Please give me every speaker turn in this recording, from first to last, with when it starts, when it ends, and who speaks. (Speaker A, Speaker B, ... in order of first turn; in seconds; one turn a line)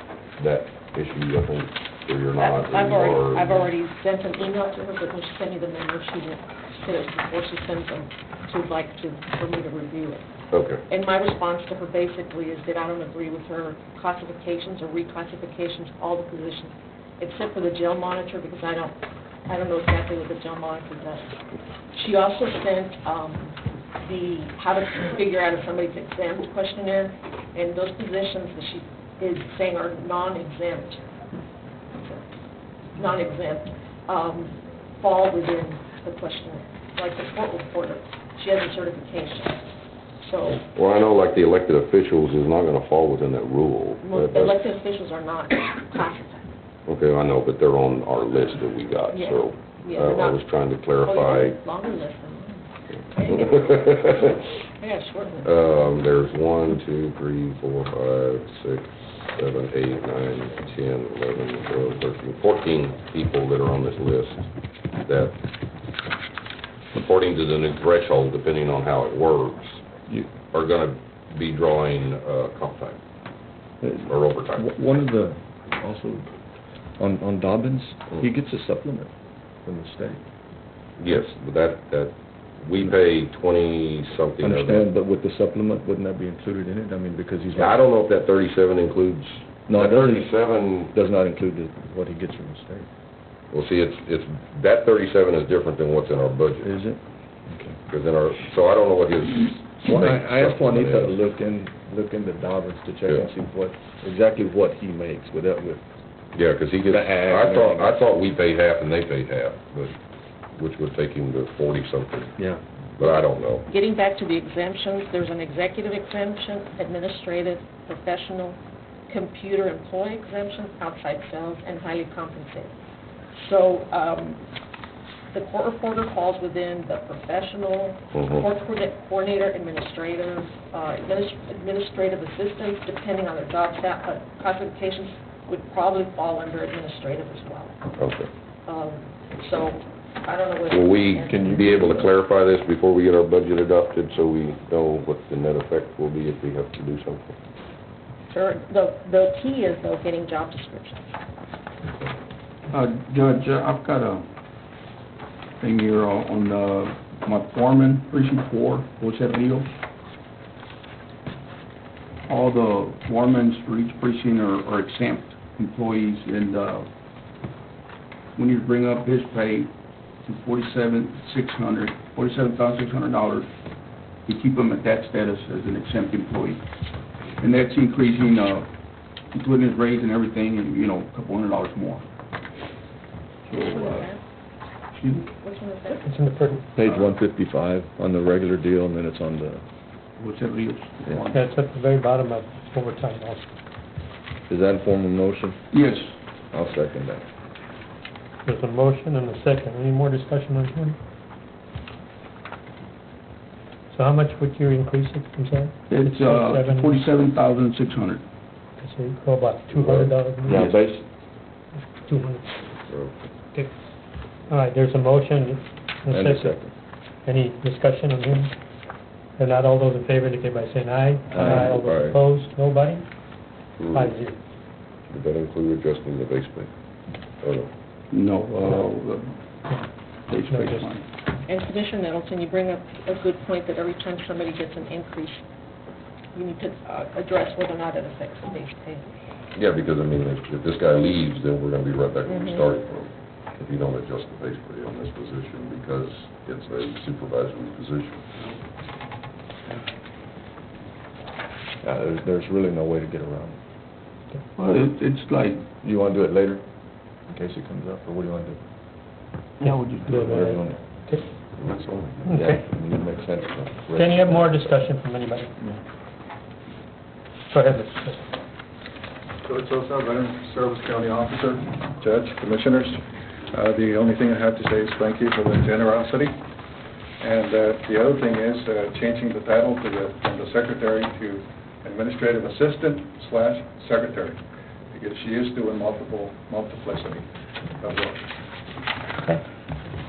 Speaker A: 0.4-3.7
Speaker B: 2.4-10.2
Speaker A: 10.5-10.8
Speaker B: 10.9-18.9
Speaker B: 19.5-21.3
Speaker B: 21.9-31.1
Speaker B: 32.0-32.2
Speaker B: 33.0-39.6
Speaker B: 40.2-40.6
Speaker A: 40.5-44.7
Speaker B: 44.0-46.5
Speaker A: 46.9-51.6
Speaker B: 49.1-50.4
Speaker B: 51.0-53.9
Speaker A: 53.2-54.5
Speaker B: 54.8-55.5
Speaker A: 55.4-64.4
Speaker A: 65.0-65.3
Speaker A: 66.9-69.8
Speaker A: 70.5-73.0
Speaker C: 73.8-76.3
Speaker A: 74.1-74.7
Speaker C: 77.0-79.1
Speaker C: 79.6-80.2
Speaker A: 81.0-84.9
Speaker C: 84.4-87.8
Speaker A: 87.5-90.9
Speaker C: 89.7-90.3
Speaker C: 90.9-92.9
Speaker A: 93.5-96.7
Speaker C: 96.6-97.8
Speaker A: 97.9-101.2
Speaker C: 99.8-105.8
Speaker A: 106.3-110.0
Speaker C: 106.9-108.0
Speaker A: 110.5-112.3
Speaker A: 113.0-113.7
Speaker B: 113.7-118.6
Speaker B: 119.1-122.7
Speaker B: 123.3-124.5
Speaker B: 125.3-137.8
Speaker A: 128.1-128.4
Speaker A: 138.0-138.3
Speaker B: 138.7-141.6
Speaker A: 140.7-147.3
Speaker C: 141.2-142.1
Speaker B: 148.3-151.0
Speaker D: 152.7-154.2
Speaker D: 155.6-159.7
Speaker D: 162.3-166.9
Speaker D: 168.3-169.7
Speaker D: 170.2-173.5
Speaker D: 174.2-176.6
Speaker D: 177.4-178.7
Speaker D: 179.3-182.0
Speaker D: 183.4-184.1
Speaker D: 184.9-185.3
Speaker B: 185.5-185.9
Speaker E: 186.0-186.7
Speaker C: 186.7-189.6
Speaker D: 186.8-187.2
Speaker D: 190.2-191.4
Speaker E: 191.3-193.4
Speaker C: 194.5-195.6
Speaker D: 195.7-196.1
Speaker C: 196.5-197.2
Speaker E: 198.4-201.0
Speaker E: 203.9-207.0
Speaker D: 205.9-208.2
Speaker E: 208.8-210.7
Speaker A: 209.8-210.1
Speaker D: 210.5-210.8
Speaker C: 210.5-211.0
Speaker E: 211.9-212.4
Speaker A: 212.9-213.2
Speaker E: 214.5-216.7
Speaker C: 216.1-216.7
Speaker E: 217.2-218.5
Speaker E: 219.4-223.1
Speaker C: 221.3-222.2
Speaker A: 223.8-224.1
Speaker E: 223.9-224.4
Speaker A: 225.1-226.7
Speaker A: 227.4-227.7
Speaker D: 228.1-229.4
Speaker D: 230.3-231.0
Speaker E: 230.5-230.9
Speaker B: 231.5-235.4
Speaker B: 236.3-239.1
Speaker A: 239.5-248.2
Speaker B: 242.3-242.6
Speaker C: 251.8-253.6
Speaker D: 254.6-255.7
Speaker C: 255.8-256.6
Speaker C: 257.3-258.6
Speaker D: 259.6-260.6
Speaker E: 259.6-261.2
Speaker C: 260.1-261.1
Speaker A: 261.6-262.3
Speaker C: 262.2-264.7
Speaker E: 262.3-262.6
Speaker E: 263.9-265.5
Speaker E: 267.5-268.2
Speaker F: 269.4-276.4
Speaker F: 277.2-284.4
Speaker F: 284.9-287.2
Speaker F: 287.8-288.4